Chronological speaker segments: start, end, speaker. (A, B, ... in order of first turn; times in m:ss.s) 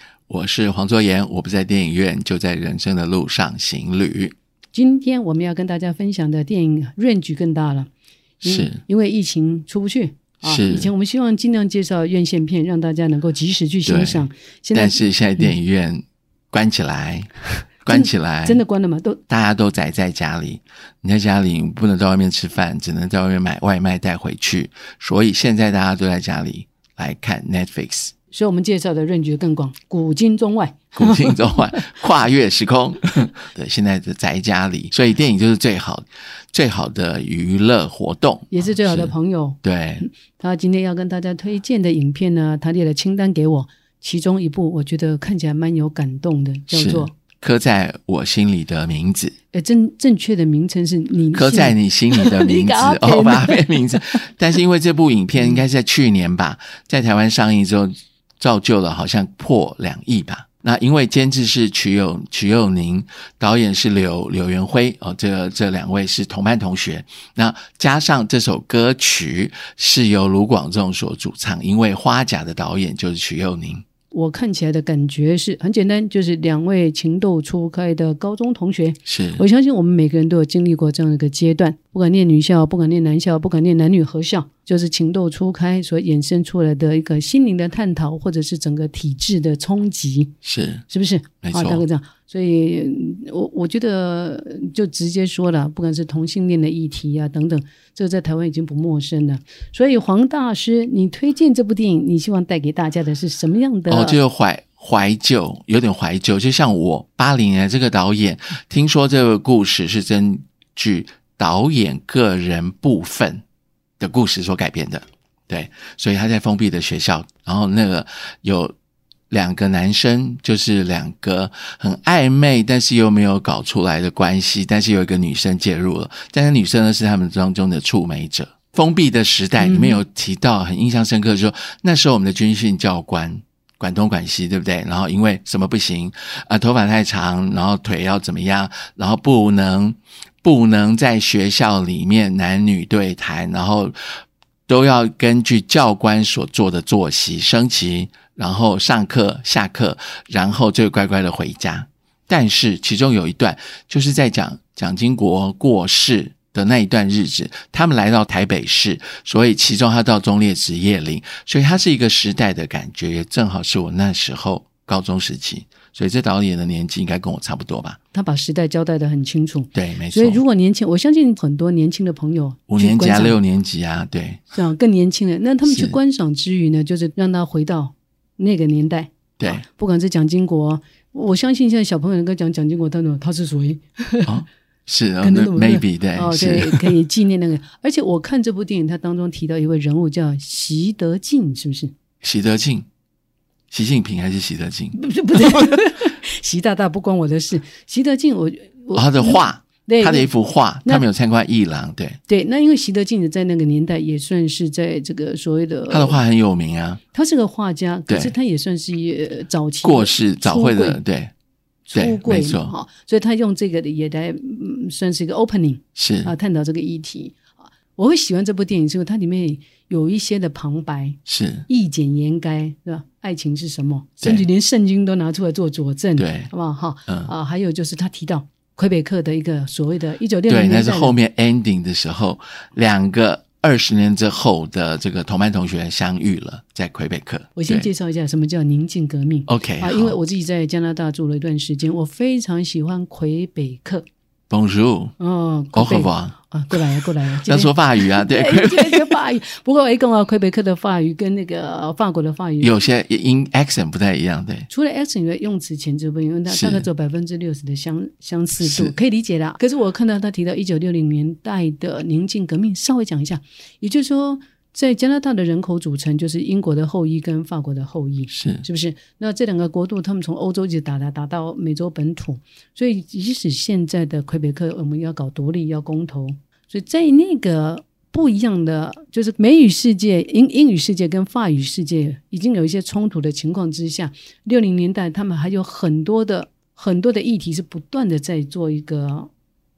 0:00.3-0:04.4 A
0:04.7-0:07.9 B
0:08.4-0:08.8 A
0:08.4-0:15.5 B
0:10.4-0:10.9 A
0:13.8-0:18.6 A
0:17.9-0:19.2 B
0:19.3-0:28.1 A
0:28.3-0:31.9 B
0:31.0-0:40.0 A
0:38.5-0:47.1 B
0:46.7-0:49.3 A
0:49.5-0:54.2 B
0:51.3-1:13.8 A
0:55.4-0:55.6 B
1:14.1-1:30.3 B
1:19.0-1:19.4 A
1:30.4-1:30.8 A
1:30.9-1:44.2 B
1:31.4-1:31.8 A
1:43.9-1:53.4 A
1:54.0-1:58.8 A
1:59.3-2:23.9 A
2:09.6-2:10.0 B
2:24.7-2:48.0 A
2:48.1-2:53.4 B
2:49.7-2:50.4 A
2:52.7-2:54.5 A
2:54.5-3:04.4 B
2:55.7-2:56.0 A
2:59.4-2:59.6 A
3:04.2-3:06.9 A
3:05.2-3:11.9 B
3:12.2-3:12.9 A
3:13.7-3:15.8 A
3:15.0-3:20.3 B
3:18.9-3:22.2 A
3:22.3-3:26.2 B
3:25.9-3:27.0 A
3:27.1-3:31.0 B
3:28.1-3:28.3 A
3:29.8-3:31.3 A
3:31.9-3:51.2 B
3:31.9-3:32.7 A
3:36.0-3:36.3 A
3:41.2-3:41.7 A
3:44.2-3:44.5 A
3:46.2-3:46.5 A
3:50.5-3:57.9 A
3:57.6-4:04.1 B
3:59.5-4:00.2 A
4:04.5-4:05.2 A
4:05.2-4:12.7 B
4:05.7-4:09.2 A
4:12.6-4:14.7 A
4:14.7-4:49.3 B
4:16.5-4:16.9 A
4:18.6-4:18.9 A
4:28.3-4:28.6 A